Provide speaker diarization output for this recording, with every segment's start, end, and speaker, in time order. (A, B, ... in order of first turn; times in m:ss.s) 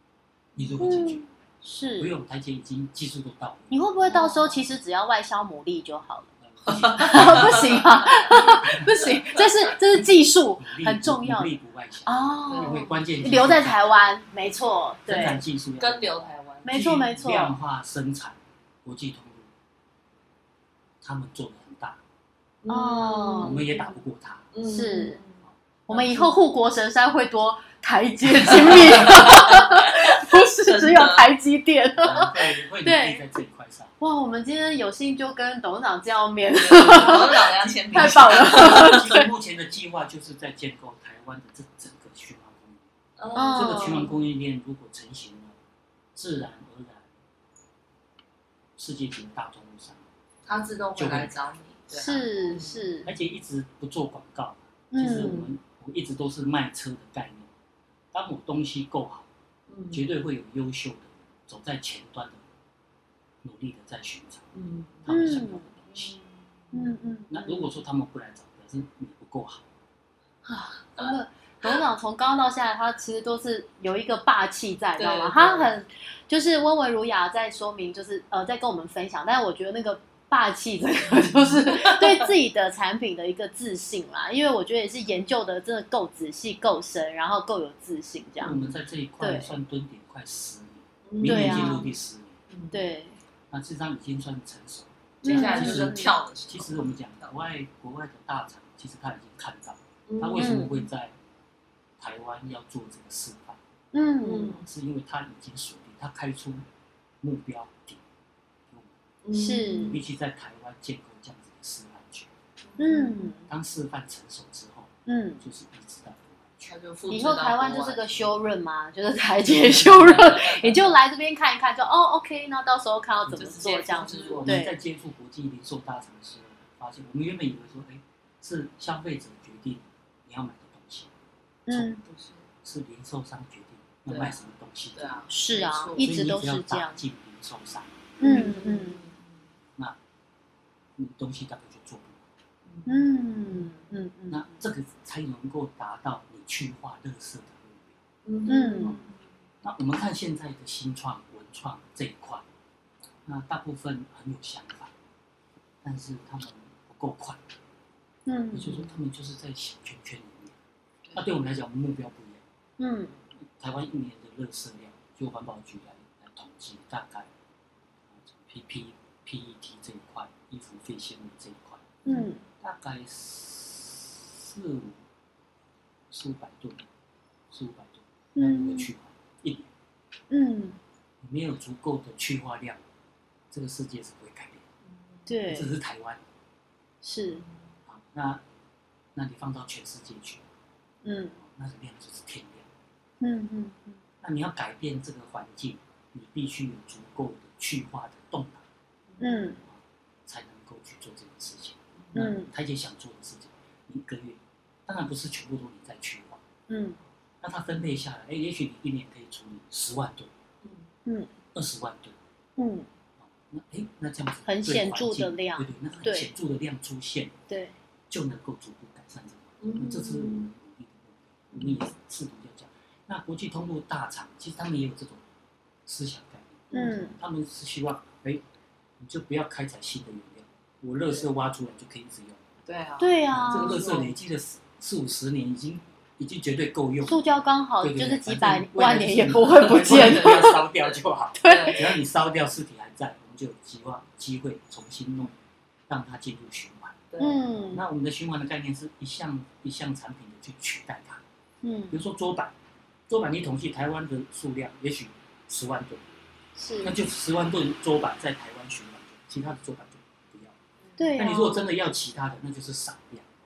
0:00.6-0:01.2 A
0:00.8-0:02.1 B
0:02.0-0:03.7 A
0:03.7-0:06.3 B
0:04.1-0:04.6 C
0:06.4-0:07.9 A
0:06.6-0:09.5 C
0:06.9-0:15.4 B
0:08.4-0:09.2 A
0:09.9-0:14.1 A
0:12.5-0:13.1 C
0:15.0-0:19.5 A
0:15.8-0:16.7 C
0:16.6-0:17.6 B
0:21.0-0:22.0 A
0:22.6-0:24.0 C
0:22.7-0:23.6 B
0:23.4-0:24.5 A
0:24.5-0:26.3 C
0:24.6-0:25.2 B
0:25.9-0:33.2 B
0:28.5-0:31.3 C
0:32.0-0:33.9 A
0:34.0-0:39.3 B
0:36.6-0:39.1 C
0:37.9-0:42.9 A
0:43.2-0:44.1 C
0:43.3-0:44.1 B
0:43.5-0:45.6 A
0:46.1-0:47.1 A
0:48.8-0:50.0 A
0:50.4-0:52.8 C
0:51.0-0:51.3 A
0:51.9-0:53.1 B
0:53.0-0:57.5 A
0:54.9-0:55.5 B
0:58.1-0:59.3 A
0:59.7-1:00.0 C
0:59.9-1:02.4 A
1:03.4-1:04.5 A
1:04.5-1:05.3 C
1:05.0-1:06.1 A
1:05.1-1:05.7 B
1:05.9-1:06.9 C
1:06.7-1:07.7 B
1:07.3-1:09.7 A
1:10.4-1:11.8 C
1:11.0-1:28.6 B
1:15.0-1:15.7 C
1:21.4-1:22.3 C
1:28.4-1:32.4 A
1:28.4-1:28.7 C
1:29.2-1:29.5 B
1:31.1-1:31.9 C
1:31.2-1:31.9 B
1:32.5-1:32.9 C
1:32.7-1:33.2 B
1:33.5-1:41.2 A
1:35.2-1:36.1 B
1:35.2-1:37.2 C
1:40.1-1:40.8 C
1:40.4-1:40.7 B
1:42.0-1:43.6 A
1:43.9-1:44.6 B
1:44.2-1:44.7 C
1:44.6-1:46.6 A
1:47.2-1:48.0 A
1:48.7-1:49.0 A
1:49.2-1:50.0 C
1:49.3-1:50.0 B
1:49.9-1:52.3 A
1:52.6-1:53.3 C
1:52.8-1:53.5 B
1:53.5-1:56.7 A
1:55.1-1:55.4 B
1:56.6-1:58.4 C
1:57.1-2:04.7 B
1:59.6-2:00.9 C
1:59.7-2:00.2 A
2:03.3-2:04.6 C
2:04.1-2:11.1 A
2:11.7-2:12.0 B
2:12.0-2:12.5 C
2:12.6-2:15.2 A
2:14.1-2:14.4 C
2:14.9-2:16.1 C
2:15.3-2:17.0 B
2:16.0-2:18.2 A
2:18.2-2:19.5 C
2:18.2-2:19.0 B
2:21.0-2:22.2 A
2:22.6-2:23.8 C
2:22.8-2:24.6 B
2:24.3-2:28.0 A
2:28.2-2:29.2 C
2:28.5-2:29.0 B
2:29.6-2:32.4 A
2:33.2-2:34.9 A
2:35.8-2:37.4 A
2:38.2-2:38.9 B
2:38.5-2:40.6 A
2:41.1-2:42.4 A
2:42.8-2:43.2 B
2:43.4-2:47.3 A
2:48.1-2:51.9 A
2:52.0-2:52.4 B
2:52.6-2:55.0 A
2:56.1-2:56.9 A
2:57.5-2:59.7 A
2:58.3-2:58.9 B
3:00.3-3:00.8 B
3:01.2-3:02.8 A
3:03.5-3:04.6 A
3:04.8-3:05.3 C
3:05.3-3:05.7 B
3:05.5-3:06.2 A
3:07.0-3:07.4 B
3:07.9-3:08.4 A
3:09.1-3:10.4 A
3:11.0-3:11.4 B
3:11.4-3:12.7 A
3:13.2-3:14.0 B
3:14.2-3:18.6 A
3:19.1-3:19.5 C
3:19.2-3:19.6 B
3:19.6-3:26.4 A
3:22.0-3:22.2 C
3:22.1-3:22.5 B
3:26.7-3:27.0 B
3:27.4-3:30.3 A
3:30.6-3:30.9 C
3:31.0-3:31.3 B
3:31.5-3:32.2 A
3:32.6-3:32.9 B
3:33.2-3:37.4 A
3:34.4-3:36.3 B
3:37.5-3:37.7 B
3:38.1-3:45.2 A
3:39.6-3:40.5 C
3:41.5-3:41.8 C
3:45.8-3:48.4 A
3:46.7-3:47.2 B
3:49.0-3:52.4 A
3:52.6-3:54.2 C
3:53.0-3:53.9 B
3:53.3-3:57.2 A
3:57.0-4:00.6 B
3:57.8-4:05.4 A
3:59.6-4:00.5 C
4:01.4-4:01.9 B
4:01.4-4:01.9 C
4:05.9-4:07.0 A
4:07.1-4:07.4 C
4:07.2-4:07.8 B
4:07.7-4:11.2 A
4:11.6-4:12.0 B
4:11.9-4:12.5 A
4:13.1-4:16.1 A
4:16.6-4:16.9 B
4:16.8-4:20.6 A
4:21.0-4:21.7 B
4:21.2-4:23.3 A